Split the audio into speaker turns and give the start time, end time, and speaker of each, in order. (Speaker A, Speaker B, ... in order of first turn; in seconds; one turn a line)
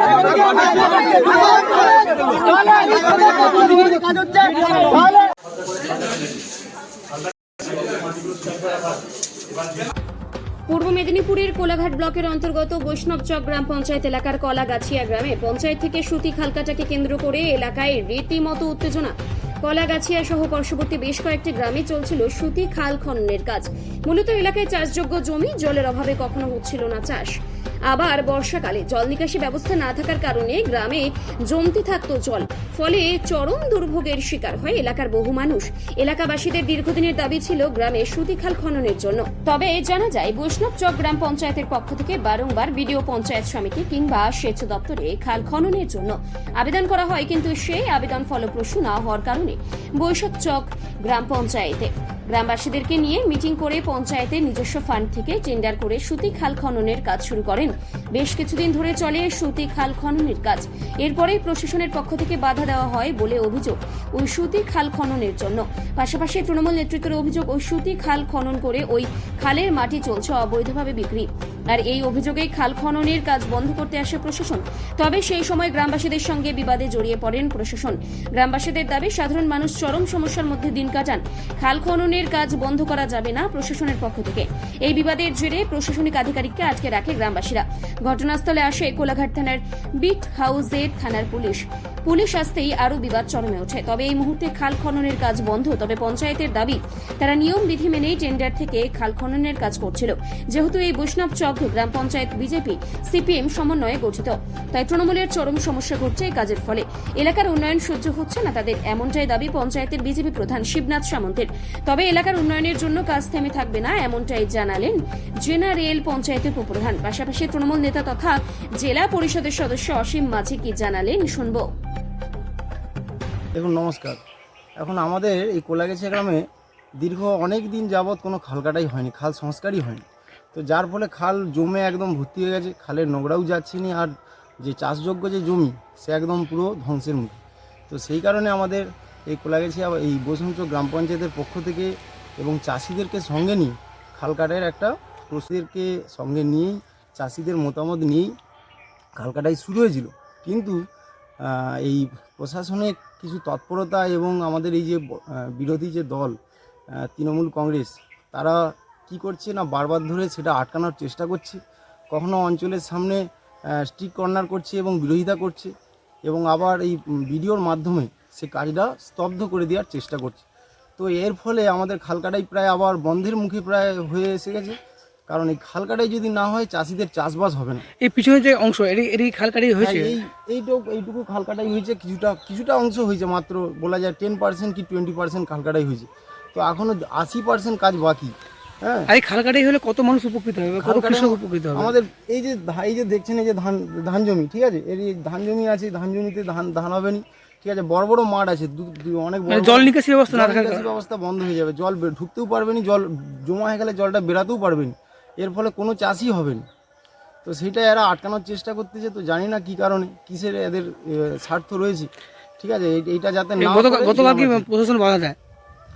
Speaker A: 0.4-5.0
Speaker B: 10.7-27.3
Speaker B: 27.9-121.7
Speaker A: 123.5-124.2
Speaker A: 124.8-126.4
Speaker A: 127.0-148.3
Speaker A: 149.2-150.8
Speaker A: 151.4-156.3
Speaker A: 156.9-161.6
Speaker A: 162.1-165.7
Speaker A: 166.2-170.4
Speaker A: 171.0-174.8
Speaker A: 175.3-177.8
Speaker C: 178.1-179.8
Speaker A: 179.8-189.1
Speaker C: 189.1-191.9
Speaker A: 190.8-206.6
Speaker C: 199.5-200.8
Speaker A: 207.4-214.7
Speaker C: 213.7-215.3